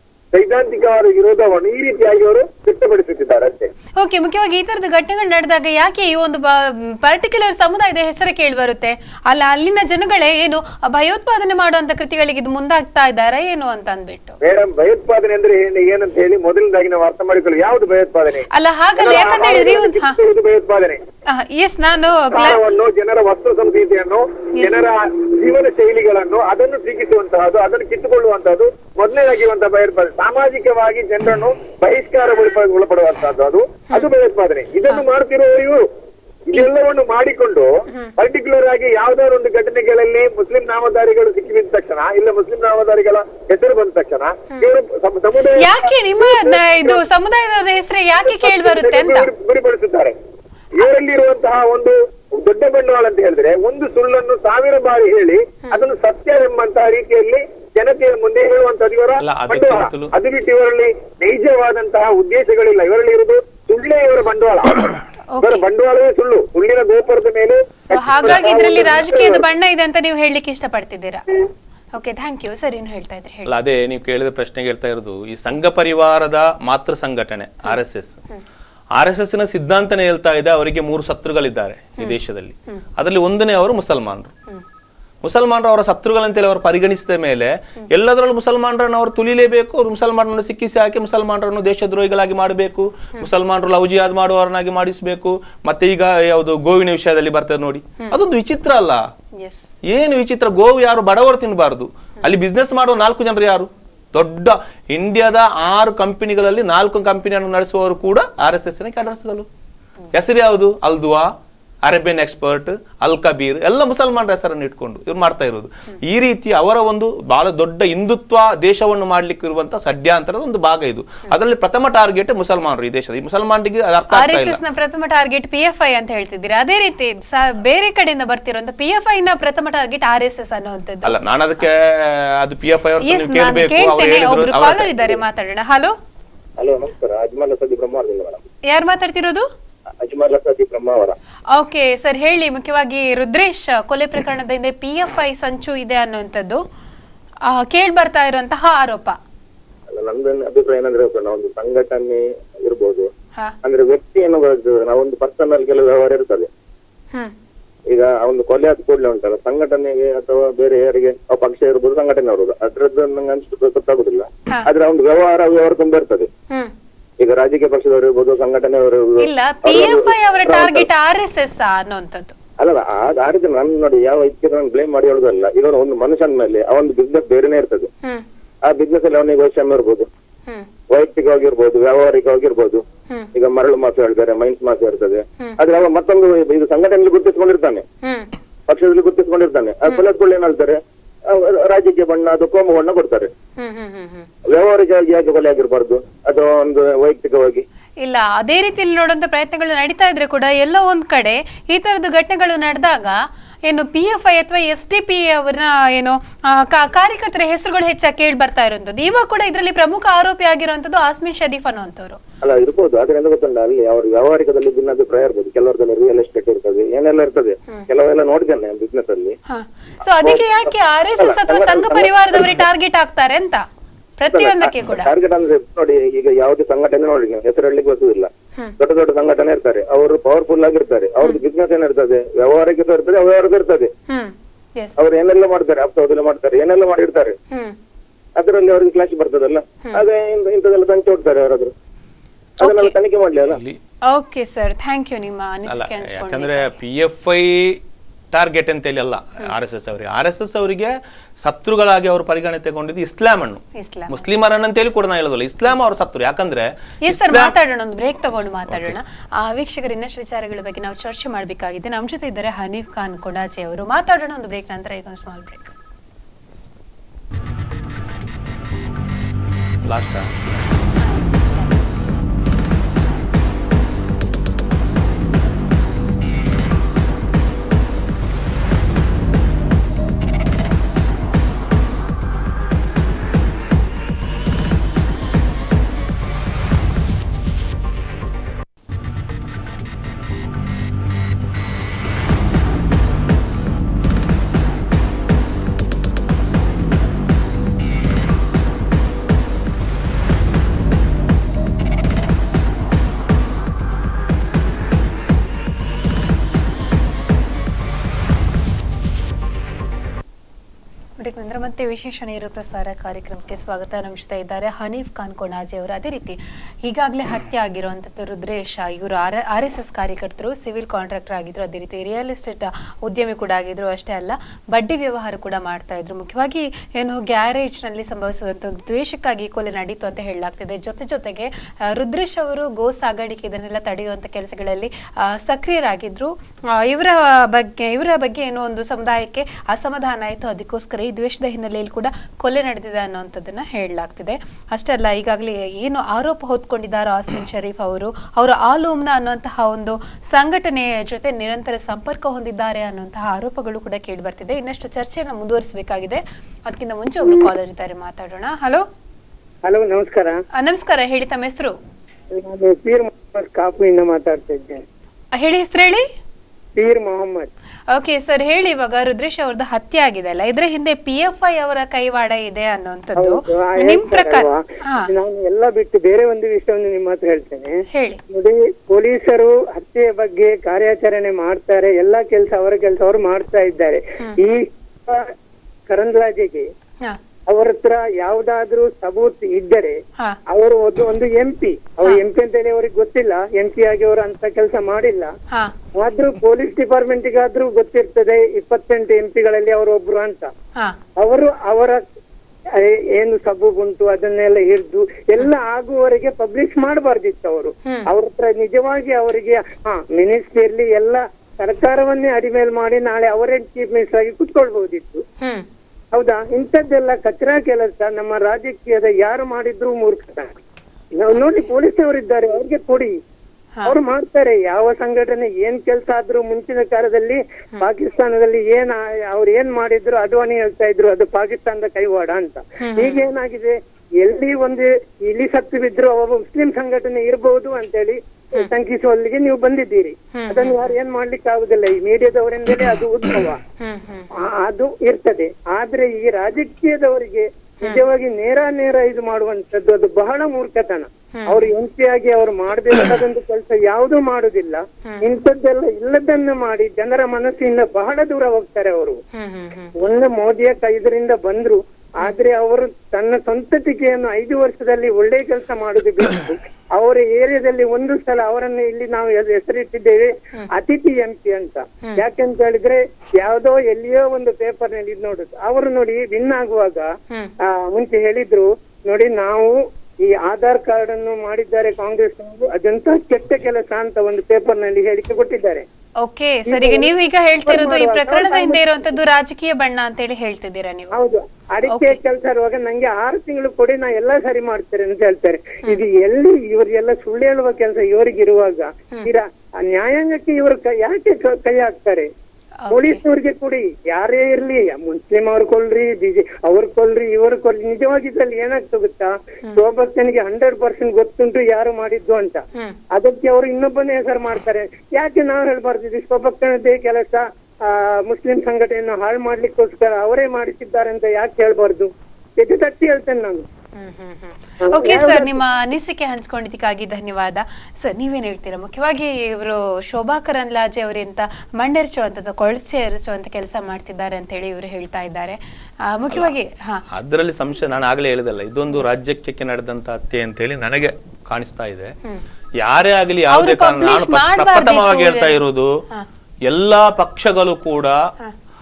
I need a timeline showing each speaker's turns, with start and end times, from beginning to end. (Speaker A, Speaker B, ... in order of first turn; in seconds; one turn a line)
Speaker A: 0.3-3.7
Speaker B: 4.0-14.4
Speaker A: 14.4-21.0
Speaker B: 18.5-20.2
Speaker B: 21.3-22.6
Speaker A: 22.3-35.8
Speaker B: 24.6-24.8
Speaker A: 36.5-47.0
Speaker B: 37.9-38.1
Speaker B: 45.6-49.3
Speaker A: 48.2-50.1
Speaker A: 50.8-69.5
Speaker C: 59.2-60.1
Speaker B: 65.3-65.7
Speaker B: 67.9-71.3
Speaker C: 67.9-69.0
Speaker B: 72.0-73.5
Speaker C: 73.5-78.2
Speaker C: 79.0-84.3
Speaker B: 82.0-82.8
Speaker C: 85.2-99.0
Speaker B: 99.4-99.7
Speaker C: 99.8-109.5
Speaker C: 110.1-111.3
Speaker C: 111.8-124.6
Speaker B: 124.1-131.2
Speaker C: 131.0-135.1
Speaker B: 133.0-135.9
Speaker A: 136.6-138.4
Speaker B: 138.7-139.5
Speaker A: 140.0-141.2
Speaker B: 141.5-146.6
Speaker B: 147.5-149.2
Speaker A: 149.9-153.1
Speaker A: 153.6-156.5
Speaker A: 157.9-166.3
Speaker A: 167.2-170.8
Speaker B: 169.2-172.3
Speaker A: 172.6-177.9
Speaker A: 178.7-180.1
Speaker A: 180.9-182.8
Speaker A: 183.3-187.8
Speaker B: 188.0-188.3
Speaker A: 188.7-190.8
Speaker A: 191.3-193.3
Speaker B: 193.6-194.3
Speaker A: 194.5-197.7
Speaker B: 198.0-212.2
Speaker A: 212.4-219.3
Speaker B: 219.5-223.6
Speaker A: 221.2-222.5
Speaker B: 224.2-225.1
Speaker A: 224.3-233.9
Speaker B: 234.1-235.0
Speaker A: 235.0-237.3
Speaker B: 237.5-237.8
Speaker A: 238.4-241.7
Speaker B: 242.6-242.9
Speaker A: 242.6-243.6
Speaker C: 243.5-243.8
Speaker B: 244.1-246.7
Speaker C: 245.7-247.8
Speaker C: 248.3-257.5
Speaker B: 253.8-254.2
Speaker B: 257.1-265.7
Speaker C: 258.7-259.0
Speaker C: 269.8-270.3
Speaker B: 271.0-271.8
Speaker B: 311.2-358.9
Speaker D: 359.6-360.4
Speaker B: 360.6-361.8
Speaker D: 362.3-364.8
Speaker B: 365.4-366.1
Speaker D: 366.8-367.5
Speaker B: 367.9-375.1
Speaker D: 373.2-385.3
Speaker B: 377.9-378.2
Speaker D: 385.9-386.7
Speaker D: 387.5-395.3
Speaker D: 395.9-400.5
Speaker D: 401.2-402.0
Speaker D: 402.7-415.2
Speaker B: 415.4-415.7
Speaker D: 416.1-420.5
Speaker D: 421.2-423.2
Speaker D: 423.9-443.6
Speaker B: 432.8-433.2
Speaker B: 440.4-440.9
Speaker B: 443.8-444.3
Speaker D: 444.4-459.2
Speaker B: 451.4-451.6
Speaker B: 459.3-459.9
Speaker D: 460.0-477.1
Speaker D: 477.6-485.9
Speaker B: 486.2-491.1
Speaker D: 486.7-487.1
Speaker D: 487.7-488.9
Speaker D: 491.1-502.3
Speaker B: 491.9-492.2
Speaker B: 502.8-503.2
Speaker D: 502.9-523.6
Speaker B: 524.0-537.0
Speaker D: 524.8-525.6
Speaker C: 537.1-542.1
Speaker C: 542.8-545.9
Speaker B: 543.5-545.6
Speaker C: 546.7-548.2